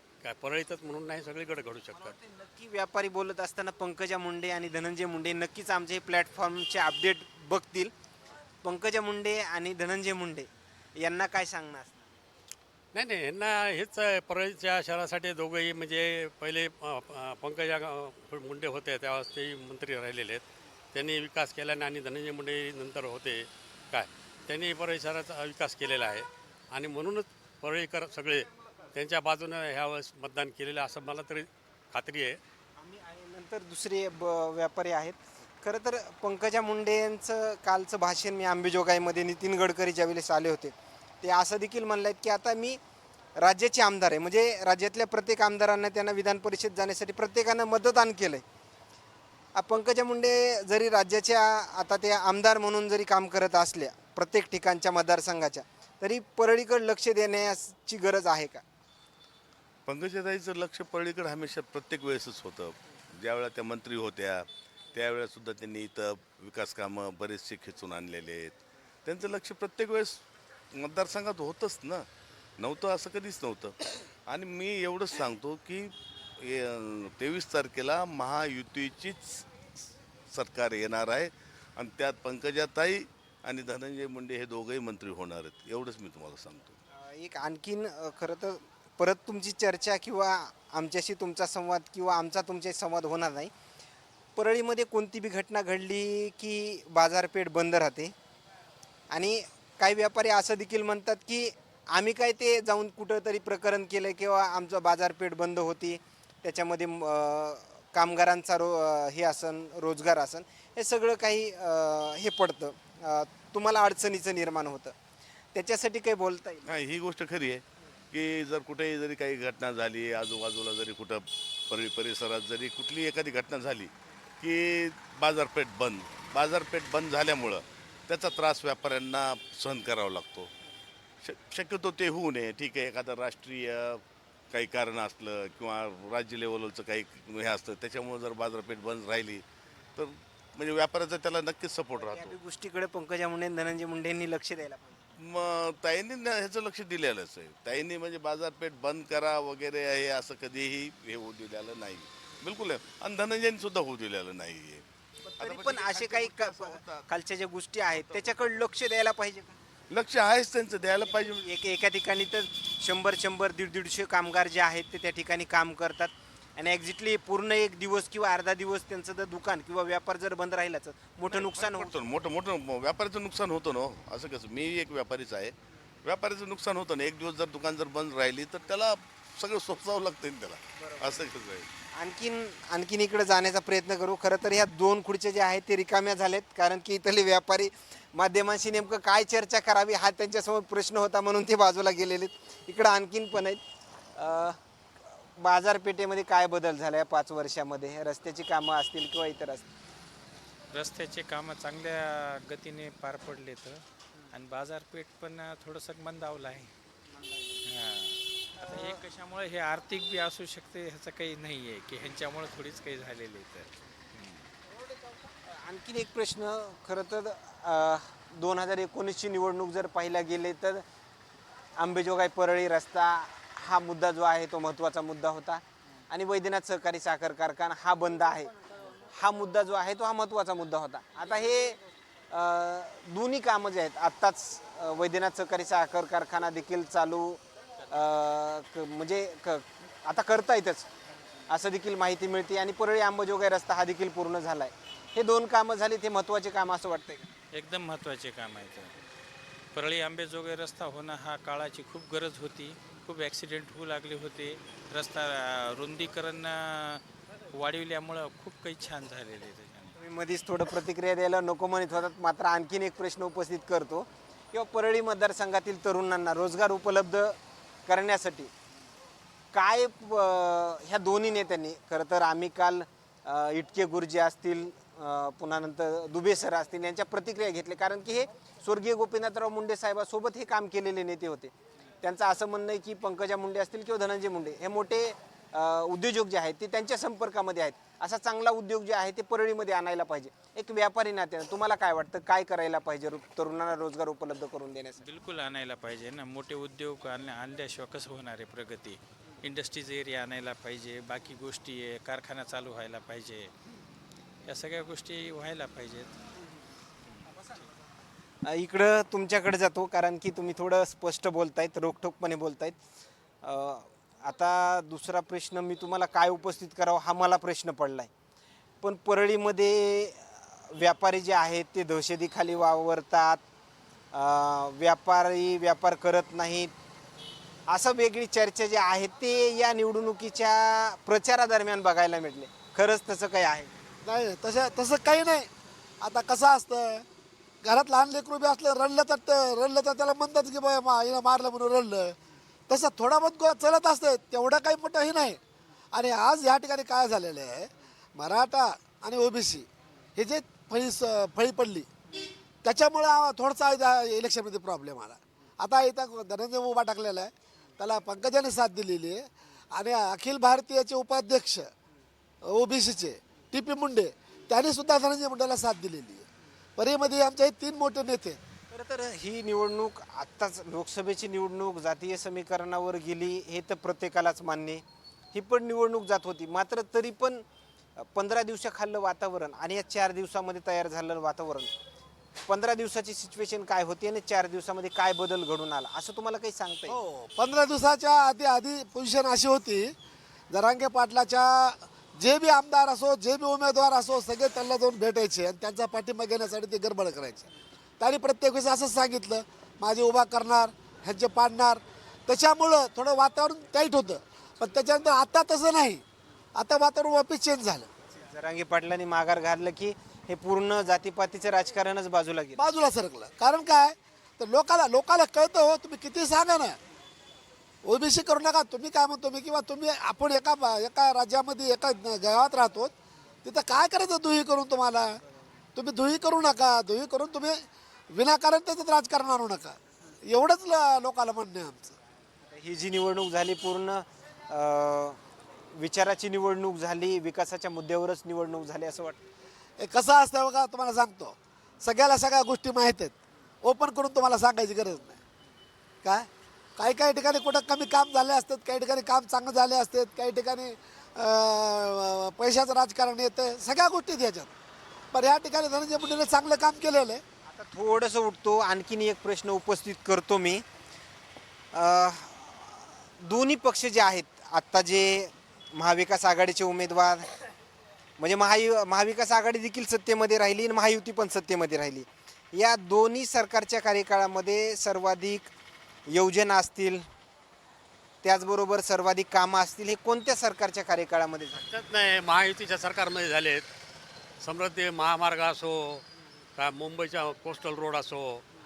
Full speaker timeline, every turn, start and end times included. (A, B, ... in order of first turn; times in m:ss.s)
0:00.2-0:02.2 A
0:02.0-0:07.9 B
0:08.6-0:12.2 B
0:12.9-0:32.4 A
0:32.8-0:42.8 B
0:43.4-0:48.4 B
0:49.6-0:58.6 B
0:59.9-1:10.2 C
1:10.7-1:12.1 C
1:12.6-1:26.8 C
1:26.9-1:33.5 B
1:34.4-1:38.1 B
1:39.1-1:54.9 B
1:55.6-1:56.6 B
1:56.7-2:10.5 C
2:11.2-2:19.4 C
2:20.0-2:22.4 C
2:21.9-2:25.1 B
2:25.2-2:34.8 C
2:35.4-2:39.6 B
2:35.4-2:37.0 C
2:37.9-2:38.5 C
2:39.9-2:41.5 C
2:41.0-2:52.0 B
2:51.2-3:01.7 C
3:00.8-3:01.2 B
3:02.0-3:13.6 B
3:14.2-3:14.6 B
3:15.3-3:19.7 B
3:20.7-3:26.7 D
3:27.2-3:27.6 B
3:27.6-3:34.5 D
3:28.6-3:29.0 B
3:35.4-3:40.8 B
3:41.8-3:51.8 B
3:52.3-4:00.9 B
4:01.5-4:07.3 B
4:07.5-4:08.9 D
4:09.7-4:20.0 D
4:20.0-4:28.5 B
4:29.5-4:55.0 B
4:55.0-5:03.5 D
5:04.5-5:06.2 D
5:07.2-5:07.7 D
5:08.4-5:12.8 B
5:13.4-5:18.1 B
5:18.8-5:23.4 B
5:24.1-5:26.7 B
5:27.7-5:33.7 B
5:34.0-5:37.0 E
5:37.6-5:42.2 E
5:42.7-5:45.4 E
5:45.9-5:51.9 E
5:52.6-6:01.7 E
6:02.4-6:06.2 E
6:06.8-6:08.4 E
6:08.7-6:17.4 B
6:18.0-6:21.7 B
6:22.5-6:27.0 B
6:26.9-6:30.0 E
6:30.5-6:37.5 E
6:38.0-6:46.0 E
6:46.6-6:47.9 E
6:48.1-6:52.6 B
6:52.6-6:56.8 E
6:57.8-7:02.9 E
7:03.4-7:05.2 E
7:05.8-7:09.8 E
7:10.3-7:12.0 E
7:12.5-7:15.2 B
7:15.7-7:19.2 B
7:19.8-7:25.2 E
7:26.0-7:34.5 E
7:35.1-7:37.2 E
7:37.5-7:40.6 B
7:41.7-7:47.3 B
7:48.2-7:55.5 B
7:56.1-7:57.0 B
7:58.2-8:01.6 B
8:01.5-8:03.7 A
8:04.4-8:06.1 A
8:06.6-8:08.5 A